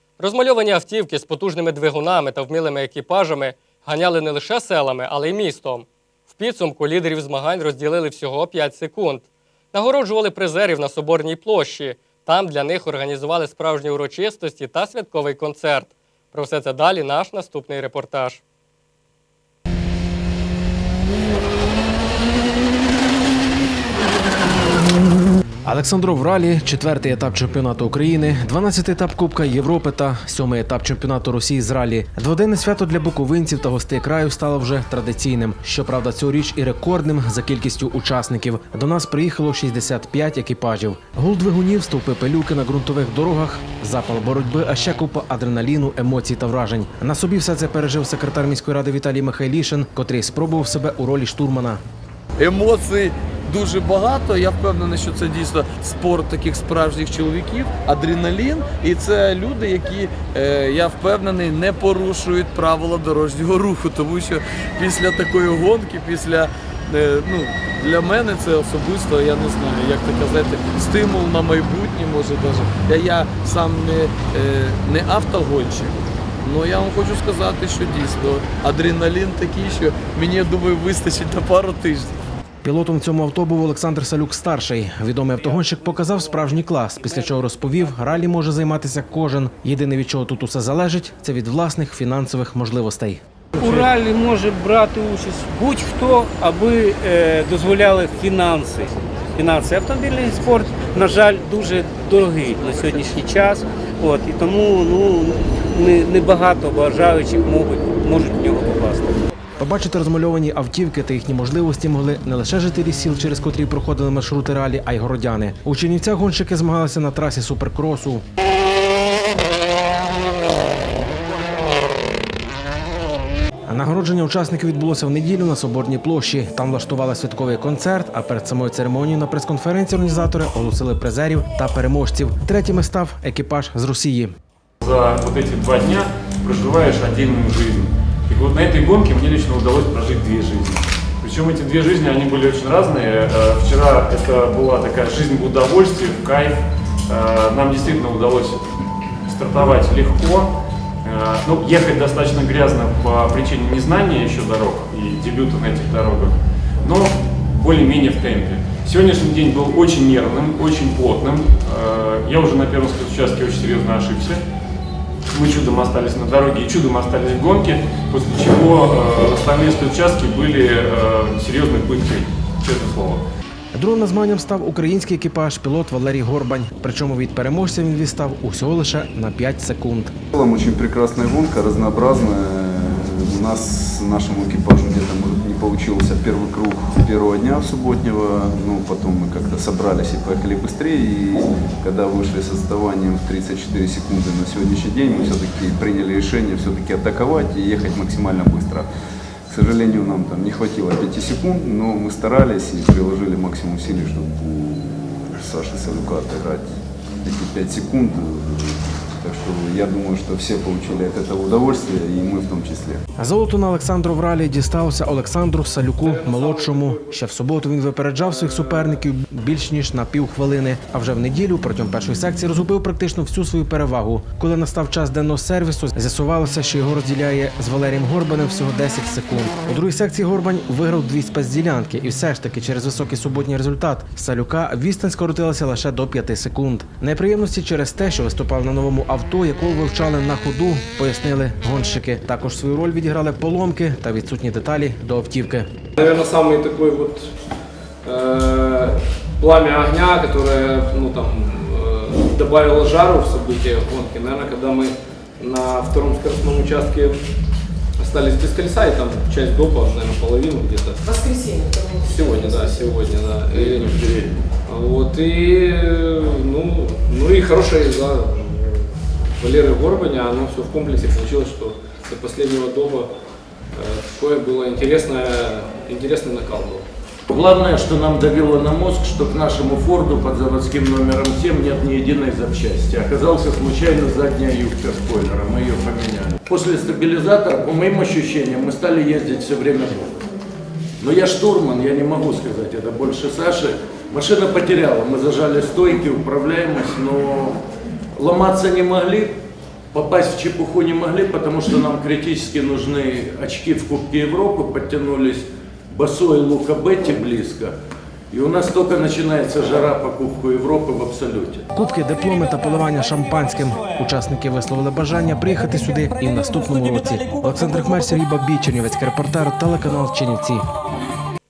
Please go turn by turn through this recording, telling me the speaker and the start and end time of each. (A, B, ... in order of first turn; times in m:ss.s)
0:00.2-0:18.4 A
0:25.6-0:51.8 B
0:52.4-1:22.2 C
1:09.6-1:09.9 D
1:22.6-1:33.2 B
1:33.6-1:49.1 E
1:49.6-1:58.2 B
2:03.7-2:14.4 B
2:14.8-2:28.7 F
2:29.2-2:30.5 F
2:31.0-2:44.4 F
2:45.3-2:53.2 F
2:53.7-3:00.1 B
3:00.3-3:18.9 G
3:19.5-3:33.0 G
3:33.2-4:05.7 B
3:36.0-3:37.1 D
3:38.4-3:39.0 D
4:05.9-4:07.3 D
4:08.0-4:17.2 D
4:18.0-4:24.0 D
4:23.5-4:24.4 H
4:24.7-4:33.1 D
4:33.7-4:36.8 D
4:37.3-4:50.2 H
4:51.0-4:57.6 H
4:58.1-4:59.3 H
4:59.9-5:07.8 H
5:08.3-5:11.7 H
5:11.7-5:20.6 B